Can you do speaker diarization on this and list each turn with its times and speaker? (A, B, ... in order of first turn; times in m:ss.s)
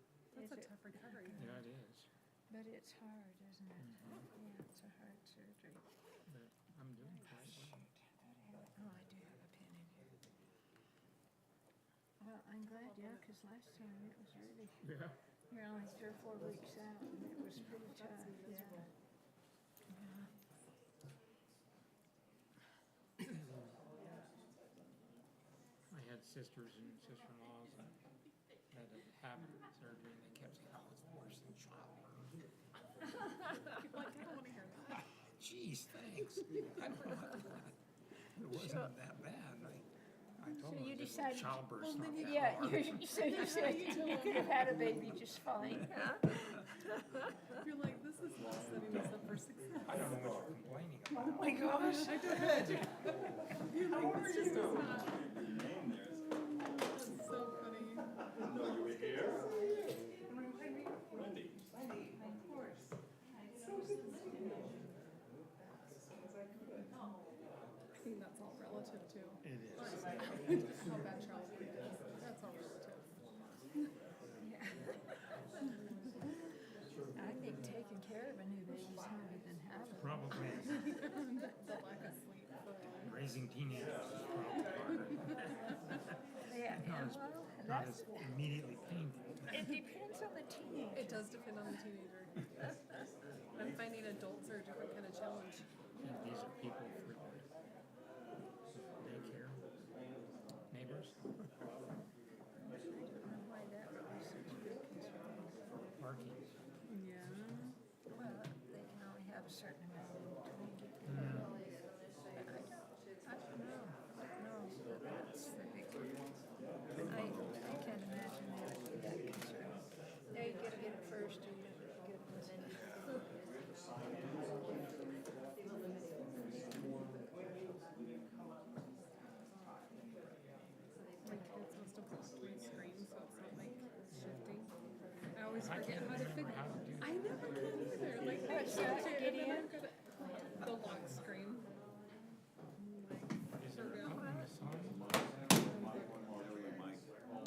0:00.3-0:01.6 A
0:00.3-0:00.7 B
0:01.4-0:02.1 C
0:02.5-0:05.8 B
0:03.8-0:04.3 C
0:06.2-0:07.9 C
0:07.1-0:07.5 A
0:07.4-0:10.2 B
0:12.2-0:14.8 B
0:12.7-0:13.3 A
0:14.8-0:15.2 C
0:15.5-0:18.9 B
0:19.9-0:20.3 B
0:25.9-0:28.0 C
0:28.7-0:32.3 C
0:33.3-0:35.0 A
0:35.0-0:37.8 C
0:38.3-0:39.9 C
0:38.5-0:38.9 B
0:40.4-0:44.1 C
0:40.5-0:46.9 B
0:41.8-0:44.9 A
0:47.6-0:50.2 A
0:49.8-0:51.7 C
0:51.4-0:52.7 B
0:51.8-0:56.1 A
0:54.4-0:54.8 B
0:56.8-0:58.1 A
0:58.4-0:59.2 D
0:59.1-0:59.8 B
1:01.1-1:01.5 D
1:02.3-1:02.6 B
1:06.2-1:06.6 A
1:08.0-1:13.4 A
1:14.4-1:15.2 B
1:17.2-1:21.1 B
1:19.9-1:20.8 C
1:20.8-1:23.2 A
1:23.0-1:26.0 C
1:26.5-1:28.3 B
1:26.8-1:29.5 C
1:29.5-1:29.8 A
1:29.5-1:31.3 B
1:30.9-1:32.3 A
1:33.5-1:35.7 A
1:36.0-1:37.5 C
1:38.9-1:39.6 C
1:40.7-1:41.2 C
1:42.6-1:45.6 B
1:46.0-1:46.4 C
1:46.8-1:47.8 A
1:48.1-1:51.6 B
1:51.0-1:51.6 C
1:52.3-1:56.1 B
1:57.0-1:57.6 D
1:57.0-2:02.9 B
2:11.2-2:14.7 A
2:14.1-2:14.5 C
2:15.3-2:21.7 A
2:15.5-2:17.4 C
2:18.4-2:19.8 B
2:22.8-2:24.3 A
2:23.6-2:25.1 C
2:25.5-2:26.4 A
2:26.3-2:27.1 D